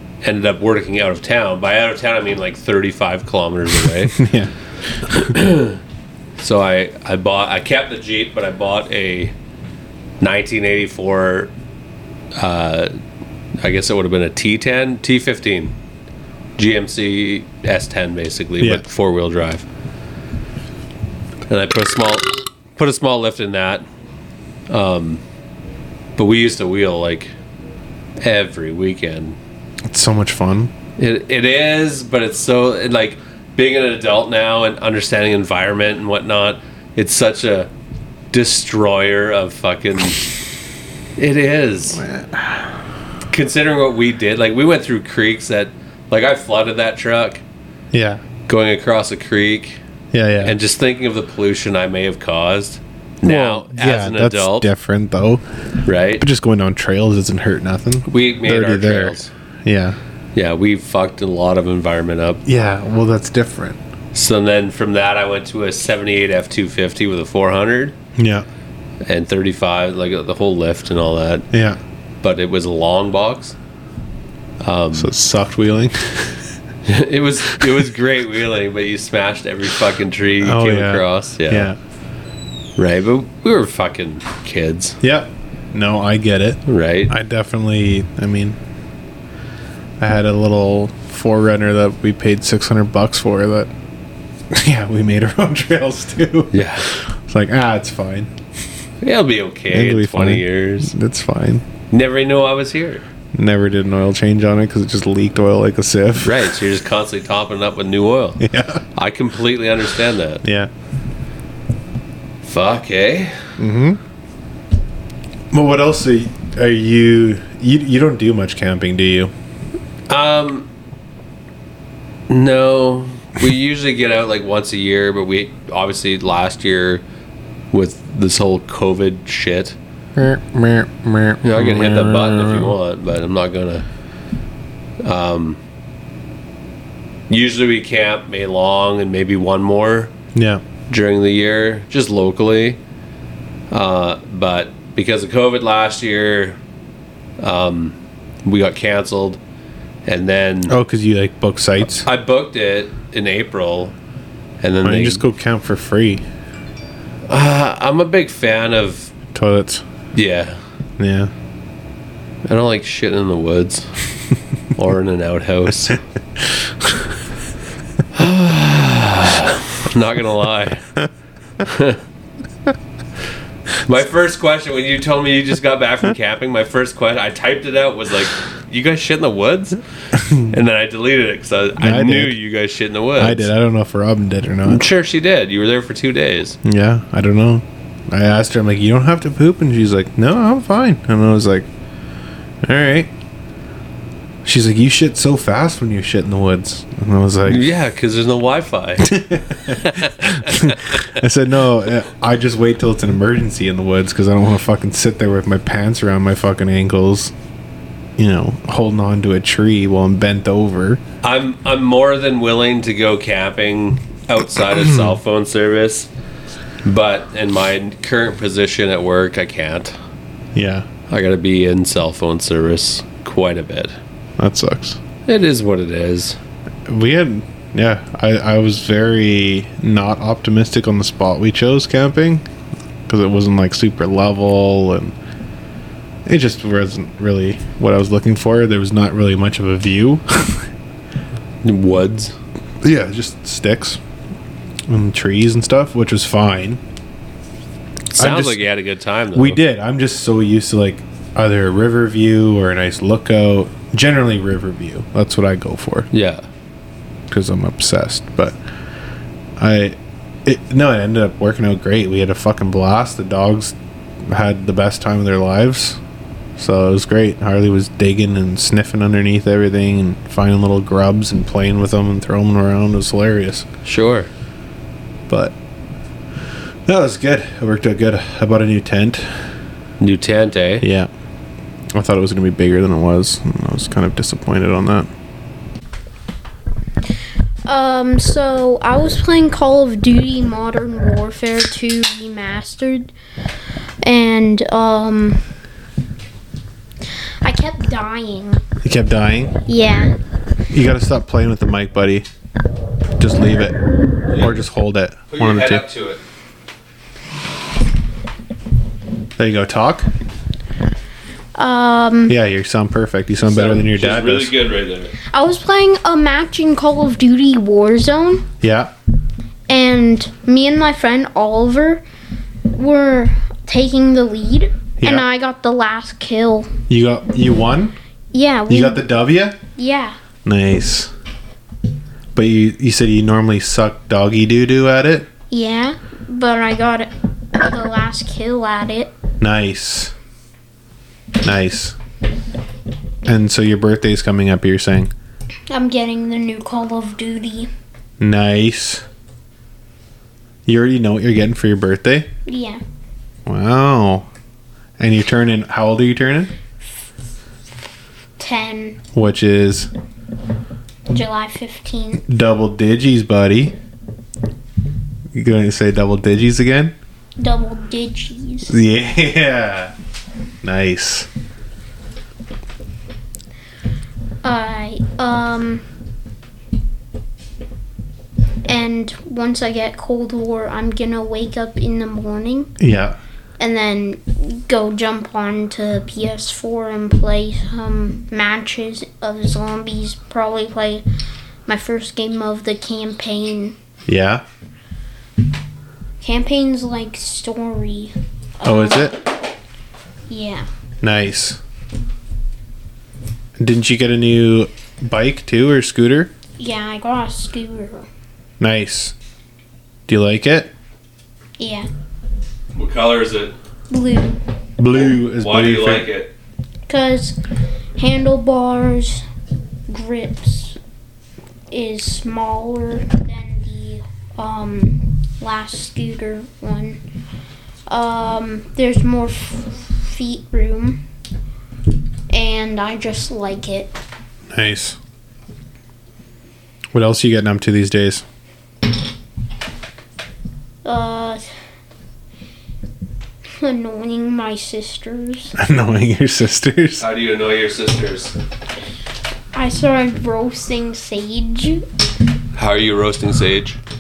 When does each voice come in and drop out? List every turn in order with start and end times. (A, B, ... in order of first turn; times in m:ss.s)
0:00.2-0:04.2 A
0:04.1-0:05.3 B
0:05.1-0:05.8 A
0:06.4-0:09.3 A
0:10.2-0:11.5 A
0:12.4-0:12.9 A
0:13.6-0:15.7 A
0:16.6-0:19.6 A
0:21.5-0:23.8 A
0:24.7-0:25.2 A
0:26.2-0:27.3 A
0:28.2-0:29.4 A
0:29.9-0:30.7 B
0:31.0-0:37.7 A
0:38.3-0:40.2 A
0:41.2-0:42.0 A
0:41.9-0:42.8 B
0:43.3-0:47.4 A
0:47.9-0:48.2 B
0:48.5-0:49.8 A
0:50.1-0:50.6 B
0:50.4-0:54.7 A
0:53.2-0:55.4 B
0:55.8-0:56.2 A
0:56.2-1:00.0 B
0:58.1-0:59.3 A
1:00.4-1:02.4 A
1:02.4-1:03.8 B
1:04.1-1:08.0 A
1:08.2-1:08.4 B
1:09.0-1:11.4 A
1:11.5-1:11.8 B
1:12.2-1:13.6 A
1:14.6-1:15.1 A
1:14.9-1:16.4 B
1:16.9-1:21.7 A
1:20.4-1:21.8 B
1:22.8-1:25.0 A
1:25.0-1:28.6 B
1:26.6-1:27.1 A
1:30.0-1:33.7 B
1:34.5-1:38.3 B
1:36.5-1:36.9 A
1:39.0-1:40.9 A
1:39.7-1:41.6 B
1:41.9-1:43.0 A
1:43.3-1:46.5 B
1:46.2-1:50.4 A
1:48.4-1:48.8 B
1:50.4-1:50.7 B
1:52.4-1:53.5 A
1:53.6-1:54.0 B
1:55.5-1:59.3 B
2:00.1-2:00.7 A
2:02.3-2:07.0 A
2:07.7-2:09.8 A
2:10.2-2:12.7 B
2:11.4-2:13.9 A
2:15.0-2:15.6 A
2:17.3-2:20.1 A
2:20.3-2:20.6 B
2:20.9-2:22.8 A
2:23.7-2:26.6 A
2:27.4-2:29.4 A
2:30.0-2:30.8 A
2:30.7-2:32.0 B
2:31.9-2:33.9 A
2:34.6-2:35.2 A
2:34.8-2:36.2 B
2:37.3-2:39.1 A
2:39.3-2:39.8 B
2:40.1-2:40.6 A
2:41.0-2:41.3 B
2:42.4-2:43.9 A
2:44.8-2:46.0 A
2:48.1-2:50.9 A
2:51.6-2:52.0 A
2:53.8-3:03.5 A
3:00.1-3:00.5 B
3:01.8-3:02.4 B
3:03.2-3:04.9 B
3:04.6-3:06.6 A
3:06.6-3:11.7 B
3:12.6-3:13.1 B
3:14.4-3:17.7 B
3:17.4-3:21.1 A
3:19.0-3:27.3 B
3:28.2-3:31.0 B
3:31.2-3:36.1 A
3:34.8-3:35.2 B
3:36.8-3:39.9 A
3:40.5-3:40.9 B
3:41.1-3:44.0 A
3:44.4-3:45.0 B
3:45.2-3:46.4 A
3:46.9-3:52.4 B
3:53.1-3:55.1 B
3:56.2-4:00.7 B
4:01.6-4:02.4 A
4:02.8-4:04.0 B
4:04.9-4:06.8 B
4:08.1-4:09.6 A
4:08.2-4:08.6 B
4:09.3-4:16.1 B
4:16.1-4:16.4 A
4:17.3-4:18.6 B
4:19.6-4:26.0 B
4:26.6-4:33.7 B
4:33.8-4:34.3 A
4:35.3-4:35.5 B
4:36.8-4:39.5 B
4:40.0-4:40.8 A
4:40.8-4:41.1 B
4:41.9-4:45.1 B
4:47.6-4:53.1 C
4:54.0-4:55.4 C
4:57.4-4:58.6 C
4:58.8-4:59.6 B
4:59.7-5:00.1 C
5:00.7-5:02.3 B
5:03.2-5:03.8 B
5:04.3-5:04.6 A
5:04.4-5:05.8 B
5:05.3-5:06.2 A
5:09.4-5:10.1 B
5:11.5-5:12.4 C
5:12.3-5:14.5 B
5:13.4-5:15.1 A
5:15.2-5:18.5 C
5:18.6-5:18.9 B
5:19.7-5:22.0 C
5:22.7-5:26.7 C
5:26.9-5:28.0 B
5:28.3-5:29.1 C
5:28.7-5:29.6 B
5:29.8-5:30.2 C
5:30.4-5:31.1 B
5:32.4-5:35.3 B
5:35.5-5:39.1 C
5:39.4-5:40.1 B
5:41.4-5:42.0 B
5:43.2-5:45.1 B
5:45.7-5:47.7 C
5:48.2-5:49.0 B
5:50.6-5:52.3 B
5:52.4-5:52.8 C
5:53.4-5:54.3 B
5:55.0-5:56.5 B
5:58.4-5:59.0 C
5:59.1-5:59.9 B
6:01.1-6:02.2 C
6:02.3-6:03.8 B
6:05.3-6:06.9 B
6:07.4-6:08.8 C
6:08.7-6:09.9 B
6:10.6-6:11.3 B
6:14.4-6:15.8 C
6:18.6-6:22.7 C
6:22.8-6:23.2 B
6:23.6-6:31.0 C
6:31.7-6:33.8 C
6:34.1-6:34.4 B
6:36.2-6:39.1 C
6:38.6-6:39.2 B
6:40.3-6:40.7 C
6:41.0-6:41.6 B
6:43.6-6:46.3 B
6:46.6-6:48.1 C
6:48.6-6:49.1 B
6:50.1-6:50.7 B
6:51.6-6:51.9 C
6:52.8-6:53.5 A
6:53.9-6:54.4 C
6:54.8-6:56.1 B
6:55.2-6:56.3 A
6:56.9-6:57.4 C
6:58.0-6:59.2 C
6:59.9-7:00.8 C
7:01.7-7:07.0 C
7:07.9-7:11.0 C
7:12.3-7:14.0 C
7:14.5-7:15.0 B
7:16.9-7:18.2 B
7:20.8-7:21.4 C
7:23.6-7:25.6 C
7:25.6-7:27.1 B
7:27.0-7:28.4 A
7:29.5-7:31.8 C
7:32.5-7:33.8 A